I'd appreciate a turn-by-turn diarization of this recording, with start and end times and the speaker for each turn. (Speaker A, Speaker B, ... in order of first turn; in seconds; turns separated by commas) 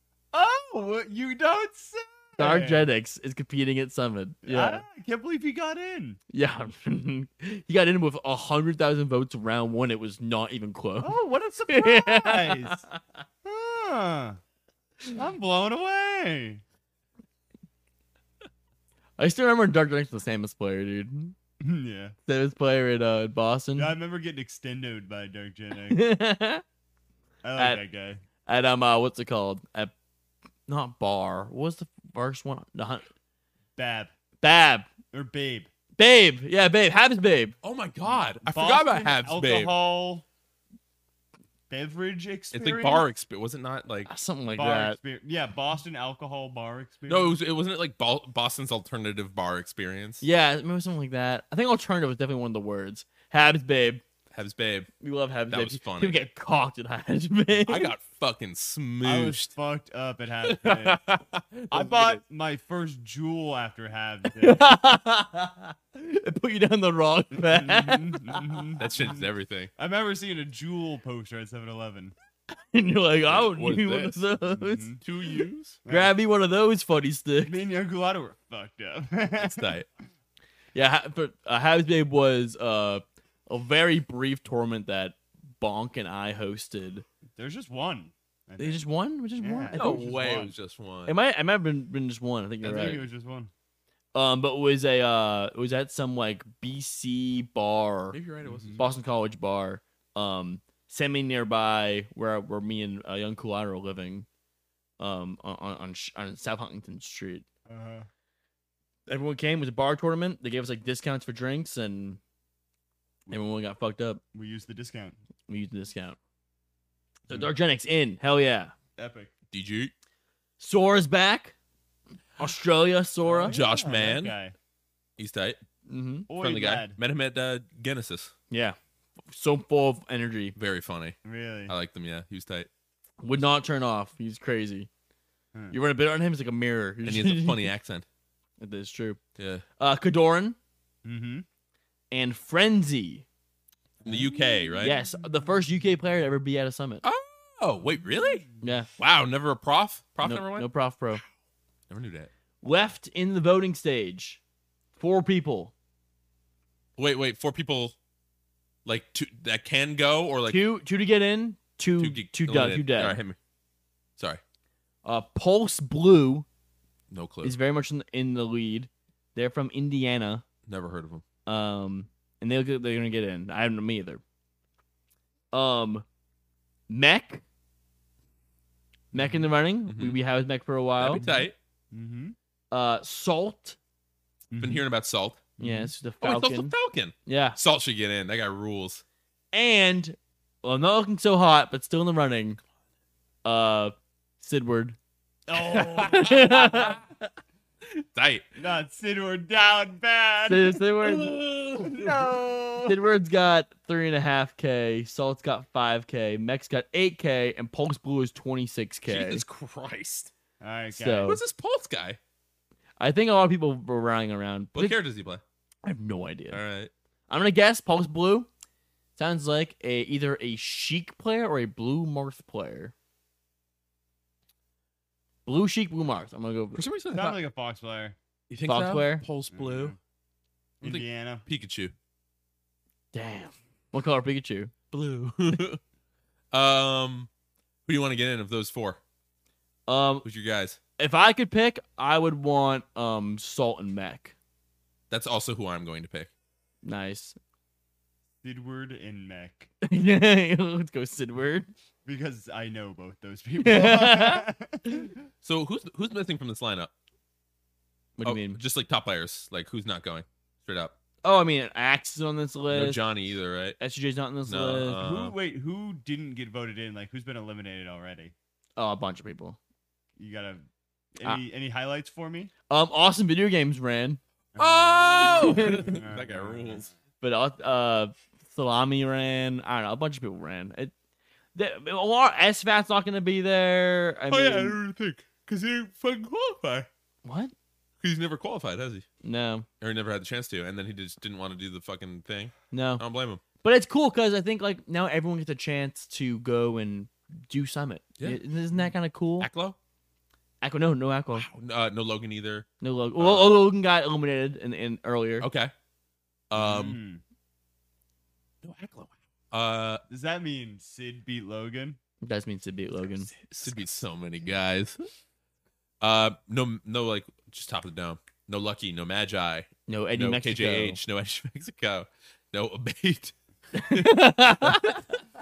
Speaker A: 0.3-2.9, Speaker B: 2.4-4.8, Speaker A: 4.4-6.2, Speaker B: 6.3-11.1, Speaker A: 11.0-12.8, Speaker B: 11.7-12.9, Speaker A: 13.4-14.4, Speaker A: 15.1-16.6, Speaker B: 19.2-21.3, Speaker A: 21.6-22.1, Speaker B: 22.3-23.9, Speaker A: 23.8-26.1, Speaker B: 25.9-26.6, Speaker A: 27.4-28.2, Speaker B: 27.6-27.8, Speaker B: 28.4-29.9, Speaker B: 30.7-33.0, Speaker A: 33.8-34.1, Speaker B: 34.4-34.9, Speaker A: 35.1-35.7, Speaker B: 36.0-37.5, Speaker C: 37.6-39.7, Speaker A: 38.4-40.2, Speaker A: 41.7-43.0, Speaker C: 42.5-44.1, Speaker B: 44.1-45.0, Speaker A: 44.5-47.3, Speaker C: 47.1-50.2, Speaker B: 50.2-54.0, Speaker C: 54.3-54.9, Speaker B: 55.0-57.9, Speaker C: 55.5-56.2, Speaker C: 57.6-59.5, Speaker A: 59.0-61.0, Speaker C: 60.5-62.2, Speaker A: 61.7-64.7, Speaker B: 64.4-68.6, Speaker A: 67.3-72.1, Speaker C: 68.8-69.7, Speaker B: 72.7-74.9, Speaker C: 73.3-74.2, Speaker A: 74.5-75.0, Speaker C: 75.0-75.8, Speaker A: 75.8-76.1, Speaker B: 75.9-77.6, Speaker A: 77.4-79.7, Speaker C: 79.4-79.9, Speaker B: 80.7-87.0, Speaker A: 87.3-88.8, Speaker B: 88.6-89.9, Speaker A: 89.4-90.5, Speaker C: 89.7-91.1, Speaker B: 91.0-93.0, Speaker A: 92.6-93.5, Speaker B: 94.1-98.2, Speaker C: 98.1-99.0, Speaker A: 98.4-98.8, Speaker B: 98.8-104.2, Speaker B: 105.0-107.5, Speaker A: 107.7-108.1, Speaker B: 109.1-112.2, Speaker B: 113.3-114.2, Speaker A: 114.3-115.2, Speaker B: 115.5-116.2, Speaker B: 117.3-118.7, Speaker A: 119.0-119.3, Speaker C: 119.5-119.9, Speaker B: 120.6-121.5, Speaker B: 122.4-123.6, Speaker A: 123.2-124.5, Speaker C: 123.5-124.3, Speaker C: 125.2-125.6, Speaker B: 125.9-126.3, Speaker A: 126.3-127.0, Speaker C: 126.3-128.3, Speaker B: 128.5-128.8, Speaker B: 129.3-130.6, Speaker C: 130.6-131.2, Speaker A: 131.2-131.7, Speaker C: 131.7-132.7, Speaker B: 133.2-134.9, Speaker B: 135.7-137.7, Speaker C: 137.0-138.1, Speaker B: 138.6-139.2, Speaker C: 139.4-139.6, Speaker B: 139.8-140.6, Speaker A: 141.0-141.4, Speaker B: 142.1-143.2, Speaker C: 144.0-144.9, Speaker A: 144.0-145.0, Speaker B: 144.8-147.0, Speaker C: 147.0-148.4, Speaker B: 148.6-148.9, Speaker C: 149.0-150.7, Speaker B: 150.2-151.2, Speaker C: 151.9-152.3, Speaker B: 152.6-154.4, Speaker B: 155.0-155.7, Speaker C: 157.0-157.9, Speaker C: 158.8-160.6, Speaker B: 160.4-163.2, Speaker C: 162.0-163.4, Speaker B: 165.0-166.4, Speaker C: 167.1-167.6, Speaker B: 167.4-170.4, Speaker C: 170.7-171.2, Speaker B: 171.4-174.2, Speaker B: 175.5-176.0, Speaker B: 176.9-177.4, Speaker B: 179.1-181.2, Speaker A: 179.2-179.4, Speaker C: 179.9-180.2, Speaker C: 181.0-181.5, Speaker A: 181.1-182.3, Speaker B: 182.7-183.8, Speaker A: 184.5-184.8, Speaker C: 184.6-185.5, Speaker A: 185.6-185.9, Speaker B: 185.6-187.6, Speaker C: 186.2-189.0, Speaker B: 189.5-192.6, Speaker B: 193.4-195.0, Speaker A: 195.5-197.0, Speaker B: 195.6-197.0, Speaker C: 196.0-196.8, Speaker C: 198.0-198.4, Speaker A: 198.6-200.8, Speaker B: 200.4-201.3, Speaker C: 201.0-202.8, Speaker A: 201.8-202.8, Speaker B: 202.8-209.4, Speaker C: 209.1-210.3, Speaker A: 210.6-211.4, Speaker B: 210.9-211.4, Speaker C: 211.2-212.2, Speaker B: 213.0-215.0, Speaker C: 214.7-215.4, Speaker B: 215.8-216.6, Speaker C: 216.5-216.9, Speaker B: 217.3-218.5, Speaker B: 219.2-222.9, Speaker B: 225.4-226.8, Speaker C: 226.7-227.4, Speaker A: 227.1-228.2, Speaker C: 228.5-229.9, Speaker B: 228.7-229.2, Speaker A: 229.5-229.9, Speaker A: 230.8-231.4, Speaker C: 230.8-231.9, Speaker B: 233.1-234.7, Speaker C: 234.9-235.8, Speaker C: 236.5-237.3, Speaker C: 237.8-239.0, Speaker B: 239.9-240.2, Speaker C: 240.2-240.8, Speaker B: 241.0-244.3, Speaker C: 245.1-246.3, Speaker B: 246.8-247.4, Speaker A: 248.4-249.7, Speaker B: 249.8-251.7, Speaker A: 252.0-255.2, Speaker B: 253.6-254.5, Speaker C: 255.4-256.9, Speaker B: 258.2-258.6, Speaker C: 258.2-260.9, Speaker B: 261.2-263.1, Speaker C: 262.7-263.8, Speaker B: 263.8-265.0, Speaker C: 264.4-265.3, Speaker A: 265.0-268.3, Speaker B: 268.8-269.6, Speaker A: 270.2-270.6, Speaker A: 271.1-272.5, Speaker B: 272.7-274.2, Speaker A: 274.5-276.9, Speaker C: 274.6-276.9, Speaker B: 275.2-276.0, Speaker B: 277.2-280.9, Speaker B: 281.5-284.8, Speaker C: 284.3-286.9, Speaker B: 287.2-287.5, Speaker C: 288.0-289.1, Speaker B: 289.2-289.6, Speaker C: 289.8-293.4, Speaker B: 292.7-293.0, Speaker B: 293.6-299.5, Speaker C: 299.4-299.8, Speaker B: 300.6-301.5, Speaker C: 301.3-303.5, Speaker B: 302.8-305.5, Speaker C: 305.4-305.7, Speaker C: 306.5-307.0, Speaker A: 306.5-307.2, Speaker C: 308.6-310.0, Speaker A: 310.1-312.0, Speaker B: 312.2-313.3, Speaker C: 313.4-315.0, Speaker C: 316.0-323.3, Speaker B: 319.9-321.0, Speaker B: 323.7-325.0, Speaker C: 323.9-325.0